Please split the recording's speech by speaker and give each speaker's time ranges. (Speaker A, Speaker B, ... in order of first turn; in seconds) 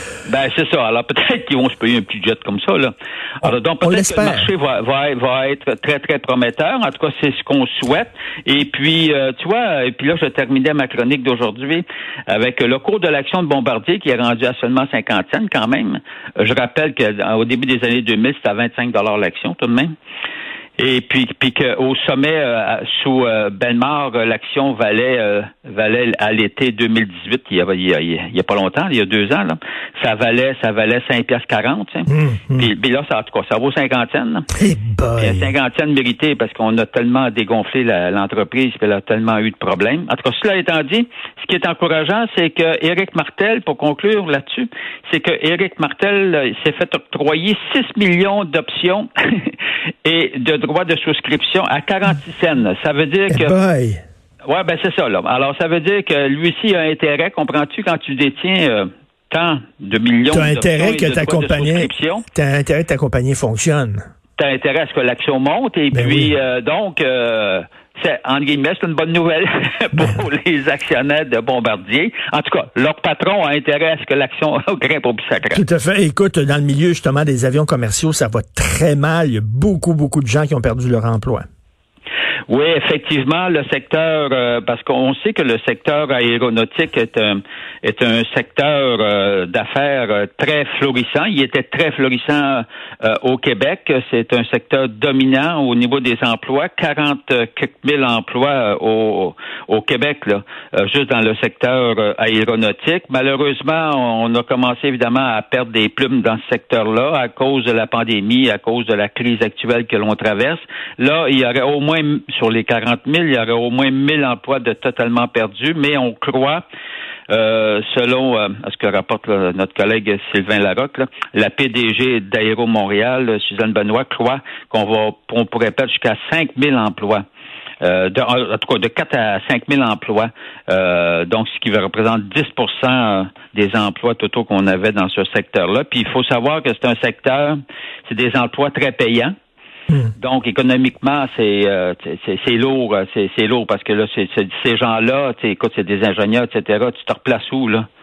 Speaker A: 0.2-19.9, 20.8-34.5, 35.2-53.5, 54.5-62.2, 64.4-75.6, 82.5-116.6, 117.3-127.2, 127.8-139.3, 140.2-147.8
Speaker B: 3.4-4.5, 32.1-32.7, 34.5-35.5, 53.3-54.0, 60.3-64.0, 65.9-66.3, 75.5-81.5